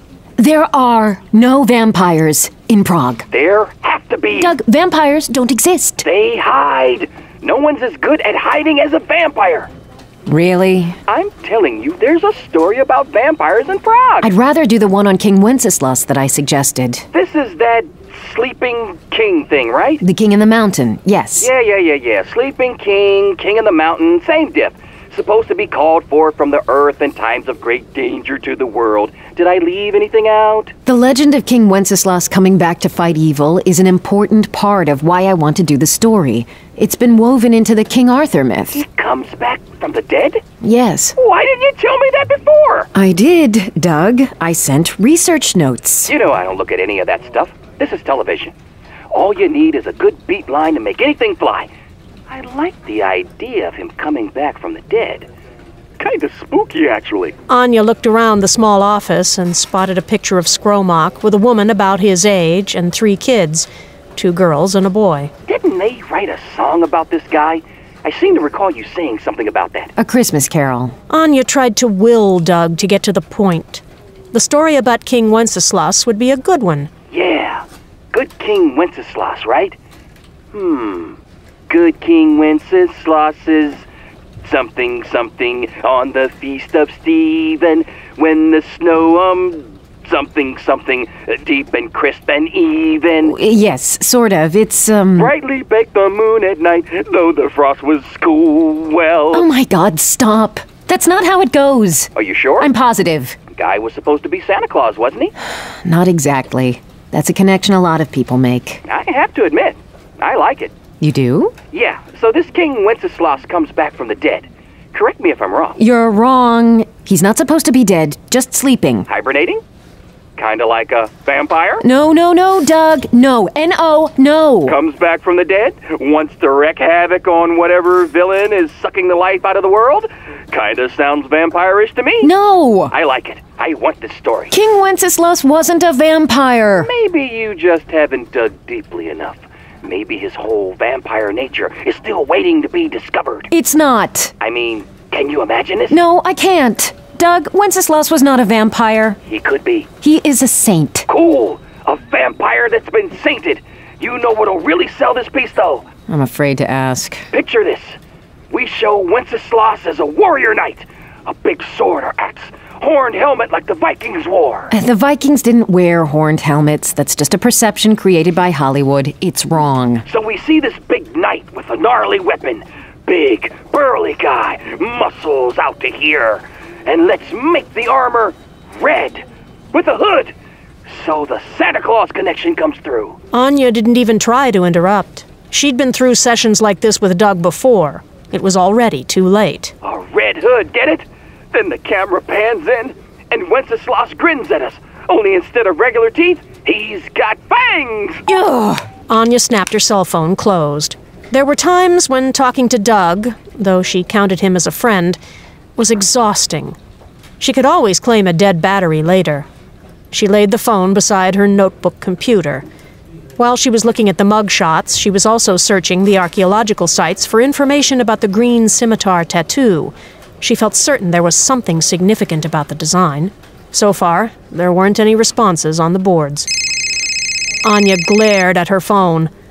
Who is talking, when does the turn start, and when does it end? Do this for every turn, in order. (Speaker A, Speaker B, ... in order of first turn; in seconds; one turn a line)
Speaker A: 0.4-3.2
Speaker B: 3.3-4.5
Speaker A: 4.4-6.0
Speaker B: 6.0-9.7
Speaker A: 10.3-11.0
Speaker B: 11.1-14.3
Speaker A: 14.2-17.1
Speaker B: 17.1-20.0
Speaker A: 20.0-21.5
Speaker B: 21.4-30.7
Speaker A: 30.9-38.9
Speaker B: 38.7-40.4
Speaker A: 40.6-41.1
Speaker B: 41.2-42.9
Speaker A: 42.9-46.1
Speaker B: 46.0-48.5
Speaker B: 49.1-51.7
Speaker B: 52.3-55.3
Speaker B: 56.0-57.4
Speaker C: 57.5-65.3
Speaker B: 65.5-69.9
Speaker A: 70.0-71.0
Speaker C: 71.1-76.9
Speaker B: 77.1-79.8
Speaker B: 80.5-81.2
Speaker B: 81.7-83.8
Speaker B: 84.4-93.3
Speaker A: 93.2-95.3
Speaker B: 95.2-99.5
Speaker A: 99.3-103.4
Speaker B: 102.1-102.7
Speaker B: 103.5-105.3
Speaker A: 105.8-108.8
Speaker B: 108.9-110.7
Speaker A: 111.0-111.5
Speaker B: 111.7-115.8
Speaker A: 115.8-119.1
Speaker B: 119.1-119.6
Speaker B: 120.4-121.8
Speaker A: 121.8-124.8
Speaker B: 124.7-132.3
Speaker A: 132.2-132.9
Speaker B: 132.9-134.5
Speaker A: 134.5-136.9
Speaker B: 136.8-143.5
Speaker A: 143.5-144.3
Speaker B: 144.4-146.0
Speaker A: 145.9-149.2
Speaker B: 149.2-149.9
Speaker A: 150.0-151.1
Speaker B: 151.1-155.8
Speaker A: 156.1-157.2
Speaker B: 157.3-158.0
Speaker B: 158.5-164.7
Speaker A: 164.7-170.0
Speaker B: 170.1-180.3
Speaker B: 180.9-183.2
Speaker C: 183.3-189.7
Speaker B: 189.8-198.2
Speaker A: 198.3-198.8
Speaker C: 199.1-205.2
Speaker C: 205.8-206.8
Speaker C: 207.4-209.5
Speaker C: 210.1-212.6
Speaker C: 213.4-226.5
Speaker C: 227.6-229.3